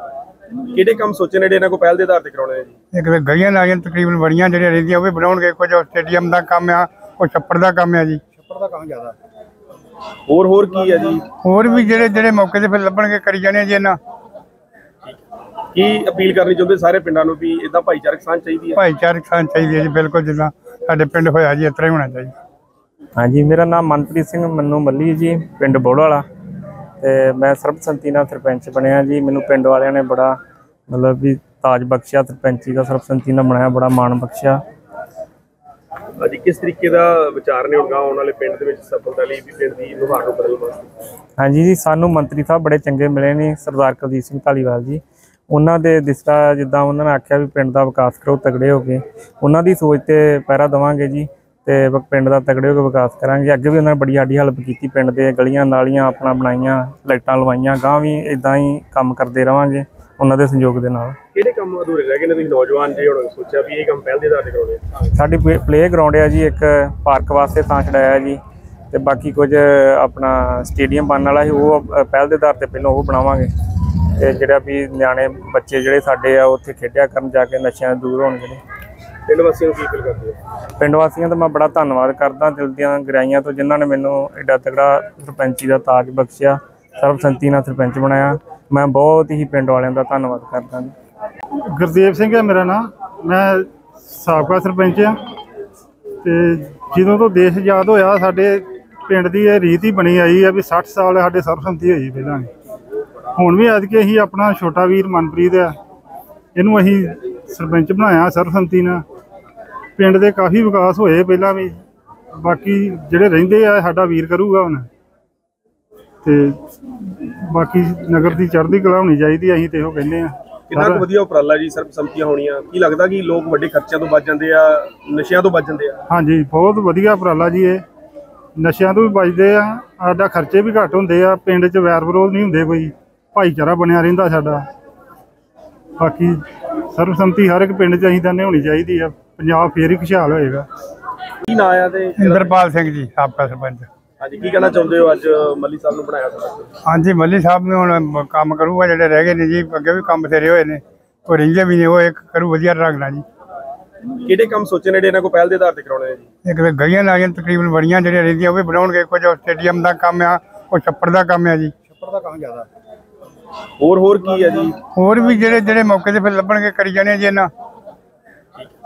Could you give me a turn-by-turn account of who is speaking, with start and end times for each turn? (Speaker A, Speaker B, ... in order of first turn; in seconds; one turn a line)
Speaker A: 0.7-2.8
Speaker B: 2.9-8.2
Speaker A: 10.3-11.2
Speaker B: 11.4-14.0
Speaker A: 15.7-18.8
Speaker B: 18.8-22.3
Speaker C: 23.2-26.2
Speaker C: 27.0-30.4
Speaker C: 30.9-34.6
Speaker A: 36.2-40.9
Speaker C: 41.4-61.2
Speaker A: 61.3-64.8
Speaker C: 65.1-68.4
Speaker C: 68.9-78.6
Speaker A: 79.3-80.4
Speaker C: 80.8-90.9
Speaker D: 91.5-95.1
Speaker D: 96.2-102.5
Speaker D: 103.3-105.8
Speaker D: 106.5-109.0
Speaker D: 110.0-111.8
Speaker D: 112.3-114.9
Speaker D: 116.2-121.0
Speaker A: 120.7-126.0
Speaker D: 126.1-127.8
Speaker D: 128.6-134.7
Speaker D: 136.0-140.7
Speaker A: 141.5-142.5
Speaker B: 142.2-143.9
Speaker A: 144.2-146.7
Speaker B: 146.8-153.2
Speaker A: 154.2-156.3
Speaker B: 156.4-161.7
Speaker A: 163.8-164.8
Speaker B: 164.9-167.5